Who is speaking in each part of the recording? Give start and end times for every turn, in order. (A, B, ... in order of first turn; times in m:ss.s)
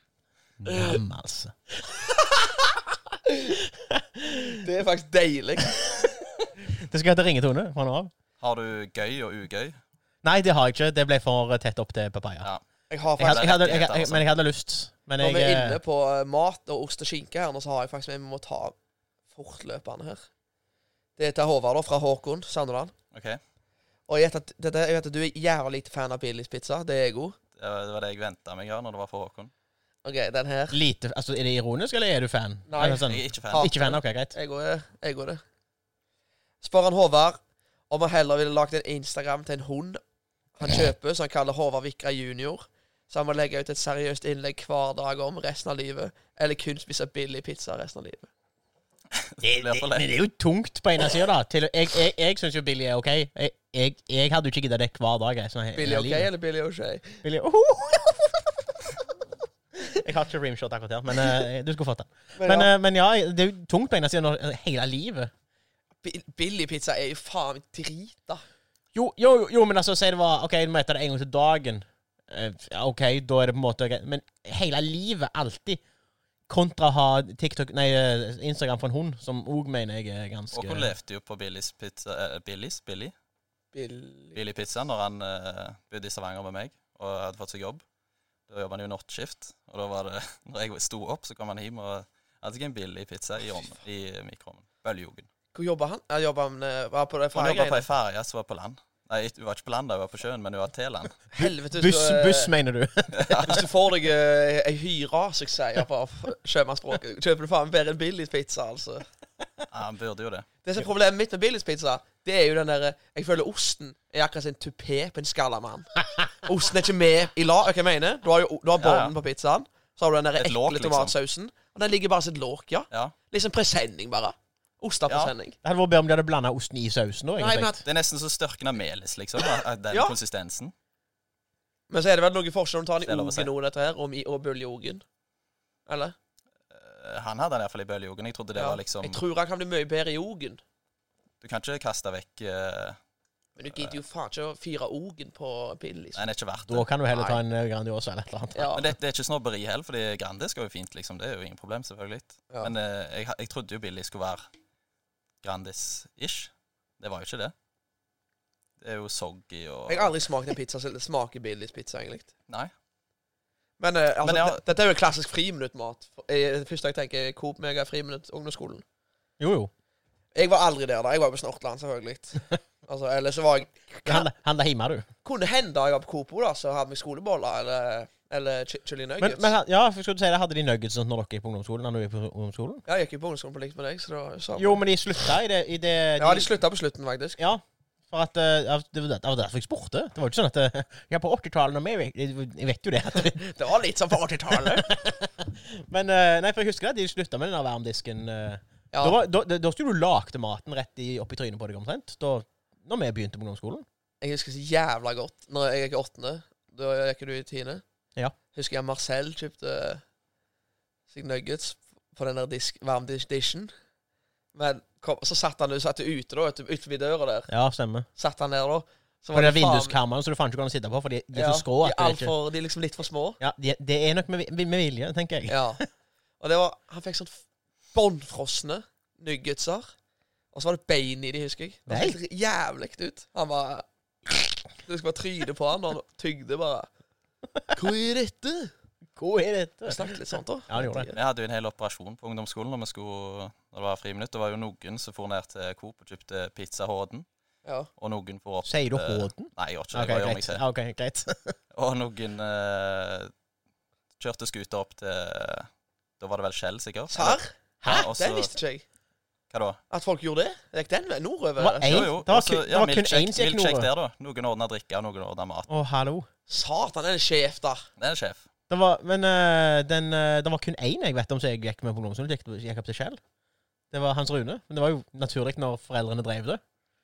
0:00.6-0:01.9 A
0:00.7-0:00.9 B
0:03.6-0:04.6 A
0:04.6-0:06.0 B
0:06.7-0:08.1 A
0:08.4-0:09.8 C
0:10.2-0:12.5 A
0:12.9-0:13.5 B
0:13.2-0:15.8 A
0:13.2-0:14.2 C
0:15.2-0:18.7 B
0:19.3-0:20.2 B
0:21.2-0:22.9 B
0:23.1-0:23.4 C
0:24.1-0:27.4 B
0:27.6-0:29.5 C
0:30.0-0:30.8 B
0:30.7-0:34.3 A
0:32.7-0:35.4 B
0:33.0-0:33.7 C
0:36.6-0:37.4 B
0:37.9-0:40.0 B
0:40.6-0:48.3 B
0:49.1-0:50.1 C
0:49.4-0:56.3 A
0:55.7-0:57.2 B
0:57.2-0:58.4 A
0:59.8-1:05.3 A
1:02.3-1:02.7 B
1:06.0-1:08.4 B
1:08.9-1:15.8 A
1:16.5-1:20.9 A
1:20.5-1:23.1 C
1:23.7-1:24.4 B
1:24.3-1:27.8 C
1:28.5-1:35.3 C
1:35.5-1:37.8 B
1:37.3-1:41.2 C
1:41.3-1:42.5 B
1:41.4-1:43.7 A
1:43.1-1:43.5 C
1:43.4-1:49.0 B
1:49.7-1:50.5 C
1:50.6-2:05.6 B
1:58.8-1:59.1 C
2:00.4-2:01.1 C
2:05.6-2:07.8 A
2:07.4-2:07.8 B
2:07.8-2:10.7 C
2:11.9-2:15.0 B
2:13.0-2:13.5 C
2:15.9-2:16.1 B
2:16.7-2:19.2 C
2:18.5-2:20.6 B
2:21.4-2:23.0 C
2:23.6-2:26.2 B
2:26.1-2:26.8 C
2:26.7-2:28.7 A
2:27.1-2:27.4 B
2:28.5-2:28.8 B
2:28.7-2:34.5 C
2:35.4-2:37.5 C
2:38.8-2:40.1 C
2:39.9-2:42.3 B
2:43.8-2:48.8 B
2:44.2-2:44.6 C
2:49.4-2:49.7 A
2:50.3-2:54.3 B
2:54.0-2:55.1 A
2:55.2-2:59.5 B
2:59.2-3:02.8 A
3:02.8-3:04.8 B
3:04.6-3:06.5 A
3:06.2-3:07.4 B
3:07.4-3:13.4 A
3:13.1-3:15.0 B
3:14.5-3:23.8 A
3:18.9-3:19.2 B
3:24.2-3:27.8 B
3:28.5-3:30.0 B
3:31.1-3:33.7 B
3:34.5-3:37.5 B
3:37.5-3:38.0 A
3:38.2-3:40.0 B
3:39.3-3:42.3 A
3:41.3-3:43.4 B
3:43.4-3:45.6 A
3:45.5-3:45.8 B
3:46.4-3:47.4 B
3:47.9-3:49.9 B
3:50.5-3:56.9 B
3:51.9-3:52.2 A
3:57.7-3:58.7 B
3:59.2-4:00.1 A
3:59.8-4:01.2 B
4:00.7-4:01.1 A
4:01.1-4:07.2 C
4:08.0-4:10.6 C
4:08.6-4:11.6 A
4:11.7-4:13.3 C
4:14.2-4:15.7 C
4:16.2-4:18.5 C
4:17.1-4:18.8 B
4:19.5-4:19.8 C
4:19.9-4:22.1 B
4:21.6-4:23.9 A
4:21.8-4:25.7 C
4:25.7-4:26.3 A
4:26.5-4:27.8 B
4:28.0-4:28.4 C
4:28.7-4:33.2 A
4:33.9-4:36.6 A